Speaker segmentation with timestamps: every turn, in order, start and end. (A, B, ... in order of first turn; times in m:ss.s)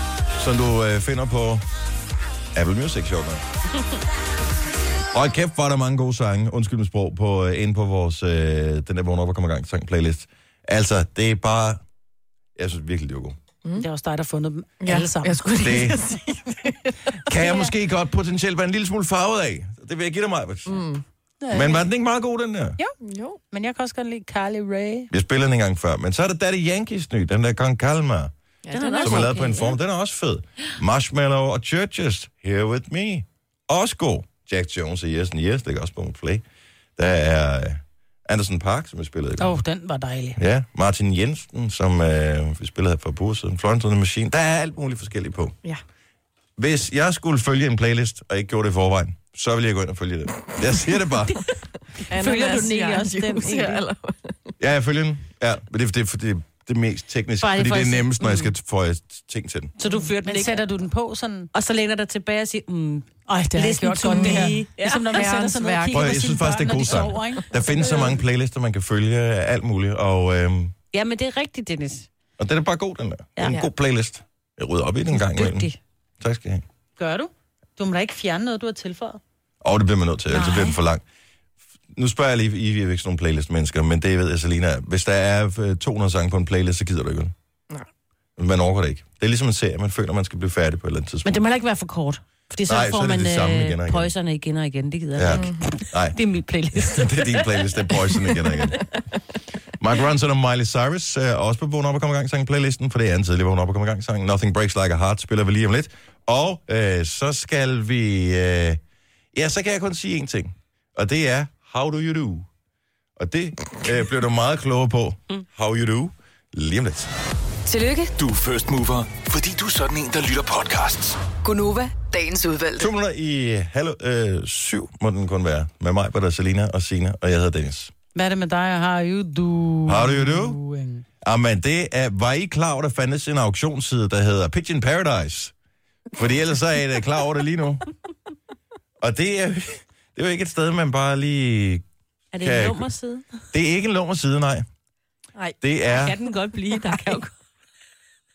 0:00.3-0:01.6 A
0:02.5-0:03.4 A
0:05.1-0:11.8 A
0:12.6-0:13.4 A
0:13.8-0:15.5 B
0:14.8-0:17.2 C
0:15.6-0:16.0 A
0:17.3-0:20.8 A
0:20.7-0:21.0 C
0:21.4-0:21.8 B
0:21.5-0:22.8 A
0:23.0-0:23.4 C
0:23.5-0:25.1 B
0:25.1-0:28.3 A
0:28.6-0:29.4 C
0:28.7-0:29.8 D
0:29.0-0:36.4 A
0:37.0-0:39.6 A
0:39.4-0:40.4 B
0:40.4-0:45.6 A
0:46.6-0:51.4 A
0:52.0-0:54.5 C
0:52.1-0:53.8 D
0:54.6-0:59.7 A
0:57.4-0:58.5 D
0:59.8-1:00.6 D
0:59.8-1:01.5 B
1:01.5-1:05.3 D
1:03.3-1:07.6 B
1:04.0-1:06.3 C
1:05.9-1:10.7 A
1:07.8-1:08.1 C
1:10.9-1:12.1 D
1:12.4-1:15.7 A
1:15.1-1:15.8 D
1:16.2-1:16.6 A
1:17.0-1:19.2 B
1:19.6-1:21.0 A
1:20.3-1:20.8 B
1:21.9-1:27.3 A
1:28.4-1:31.4 A
1:31.2-1:38.7 D
1:32.6-1:34.1 A
1:35.1-1:36.2 A
1:35.3-1:35.6 C
1:36.7-1:38.8 A
1:39.8-1:48.8 A
1:49.3-1:52.5 A
1:53.2-1:57.1 A
1:57.6-1:58.1 E
1:58.2-2:01.2 F
2:01.4-2:02.9 E
2:02.8-2:07.9 A
2:08.1-2:11.0 B
2:09.9-2:10.6 A
2:11.2-2:15.5 A
2:16.1-2:17.8 A
2:19.0-2:21.8 A
2:22.3-2:23.2 D
2:22.4-2:22.9 A
2:23.5-2:24.7 A
2:25.6-2:26.2 A
2:25.9-2:27.3 D
2:26.7-2:27.2 C